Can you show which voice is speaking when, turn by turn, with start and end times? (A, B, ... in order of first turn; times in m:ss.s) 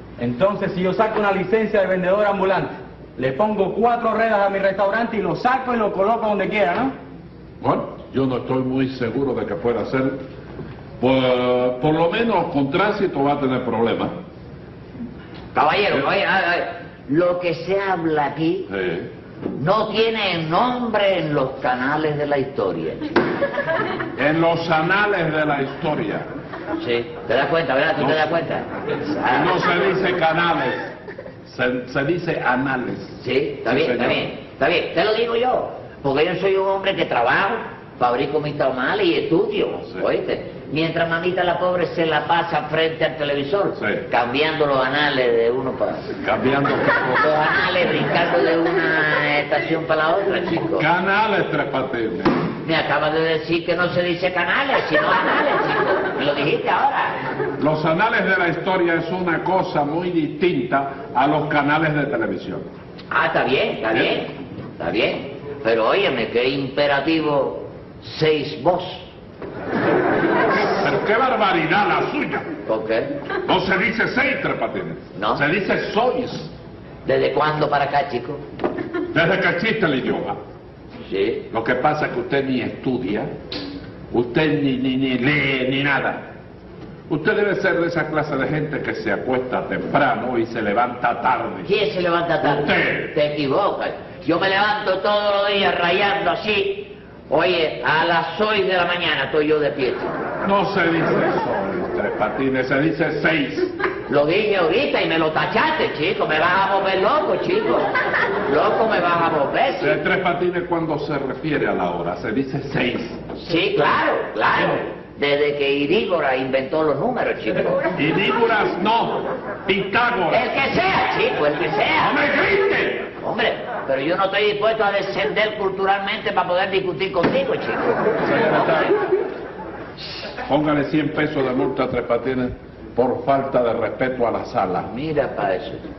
0:00.2-0:07.0 A
0:07.6-0:10.2 B
0:11.0-0:14.1 B
0:15.5-0:18.7 C
0:18.7-0:19.1 B
0:19.6-0:23.1 C
0:24.2-0:26.3 B
0:26.8-0:29.9 C
0:28.0-0:28.2 B
0:29.3-0:30.9 B
0:31.4-0:34.3 B
0:33.2-0:46.1 C
0:43.8-0:44.0 B
0:46.2-0:47.3 B
0:47.1-0:50.9 C
0:50.8-0:52.5 B
0:52.6-0:57.2 C
0:57.6-1:02.7 B
1:03.1-1:09.1 C
1:03.9-1:04.2 B
1:10.5-1:12.5 B
1:12.7-1:13.1 C
1:13.5-1:16.5 B
1:15.2-1:15.4 C
1:17.0-1:18.4 C
1:19.1-1:20.4 B
1:21.1-1:21.5 C
1:21.5-1:23.3 B
1:24.1-1:26.2 B
1:27.1-1:31.7 B
1:31.6-1:40.2 C
1:32.4-1:33.2 B
1:40.4-1:43.7 B
1:44.1-1:47.9 C
1:48.5-1:50.0 C
1:49.8-1:53.3 B
1:53.4-1:57.8 C
1:54.6-1:54.8 B
1:58.0-2:00.5 B
2:00.3-2:02.2 C
2:02.0-2:03.1 B
2:03.2-2:08.1 C
2:08.2-2:09.0 B
2:10.4-2:14.9 B
2:14.8-2:15.8 C